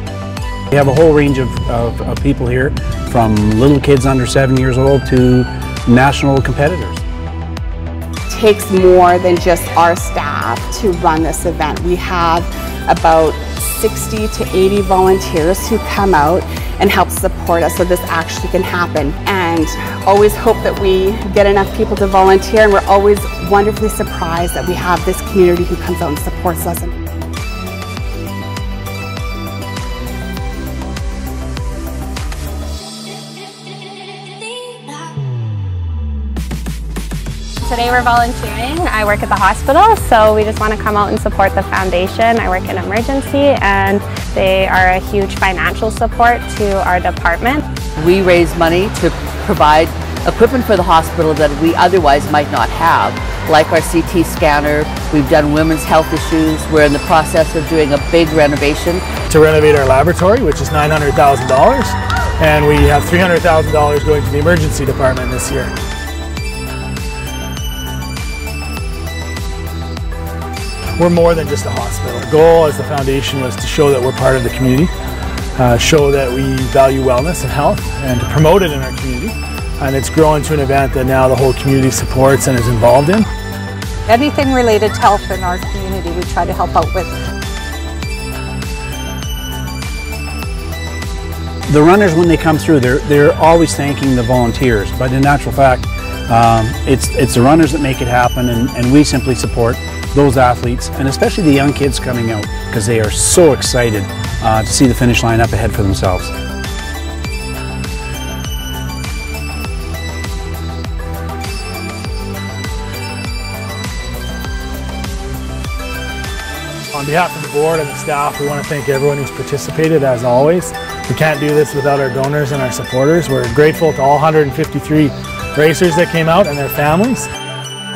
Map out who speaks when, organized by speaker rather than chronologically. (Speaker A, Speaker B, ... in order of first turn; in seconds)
Speaker A: 0.7-7.0, 91.7-106.3
Speaker B: 8.3-26.9
Speaker C: 37.7-47.6
Speaker D: 48.0-59.0
Speaker E: 59.3-65.7, 71.0-74.9, 75.6-83.3, 116.9-127.3
Speaker F: 84.1-87.1